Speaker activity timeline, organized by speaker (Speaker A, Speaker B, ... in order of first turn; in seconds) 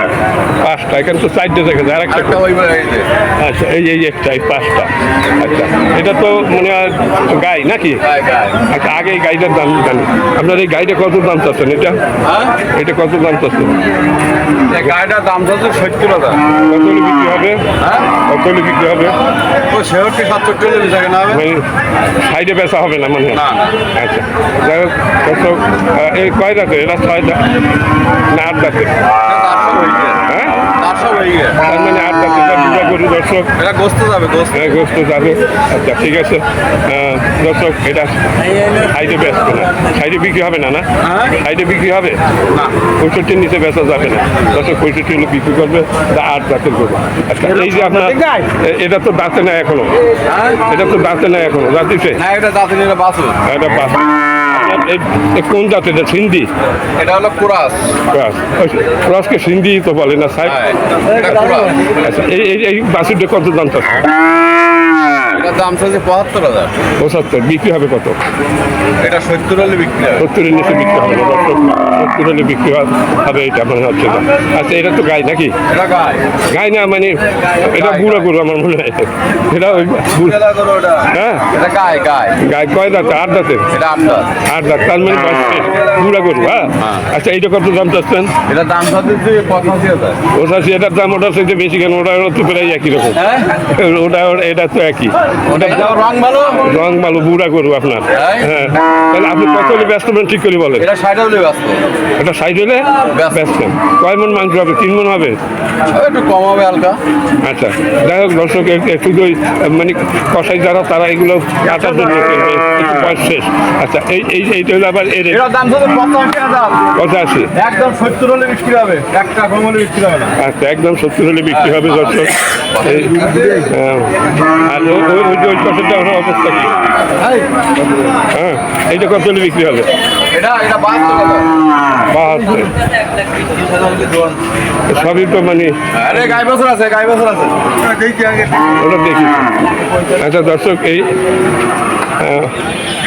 Speaker A: 0.6-2.4, 3.4-8.1, 8.7-12.0, 12.7-13.8, 16.7-17.7, 18.2-19.1, 21.3-21.6, 22.2-27.6, 28.3-29.0, 30.2-30.6, 31.6-33.5, 34.5-42.2, 43.0-49.9, 50.6-52.2, 53.4-56.5, 58.1-60.6, 62.0-64.1, 67.0-68.2, 70.2-75.6, 76.5-80.4, 81.1-81.5, 82.4-83.7, 84.4-88.3, 90.3-95.9, 96.6-100.9, 102.2-105.4, 107.4-115.4, 116.9-117.5, 120.4-126.8, 128.3-129.9, 132.1-132.7, 134.9-135.8, 138.7-139.5, 140.1-141.1, 142.2-142.5
Speaker B: 2.1-3.1, 8.0-8.6, 12.2-12.6, 14.7-16.4, 17.8-18.1, 19.7-21.4, 23.3-23.8, 29.2-31.6, 33.6-34.7, 41.0-41.4, 50.2-50.6, 52.1-53.4, 57.0-58.0, 60.4-61.8, 65.3-66.7, 69.0-70.2, 75.7-76.3, 77.6-78.3, 79.9-82.4, 83.7-84.3, 86.8-87.0, 88.5-90.2, 93.1-93.5, 95.5-96.7, 98.1-98.5, 100.8-101.8, 103.0-103.5, 105.9-107.0, 111.7-112.2, 115.3-116.9, 117.5-120.3, 121.5-123.6, 127.2-127.4, 130.3-131.5, 133.5-134.3, 135.9-138.5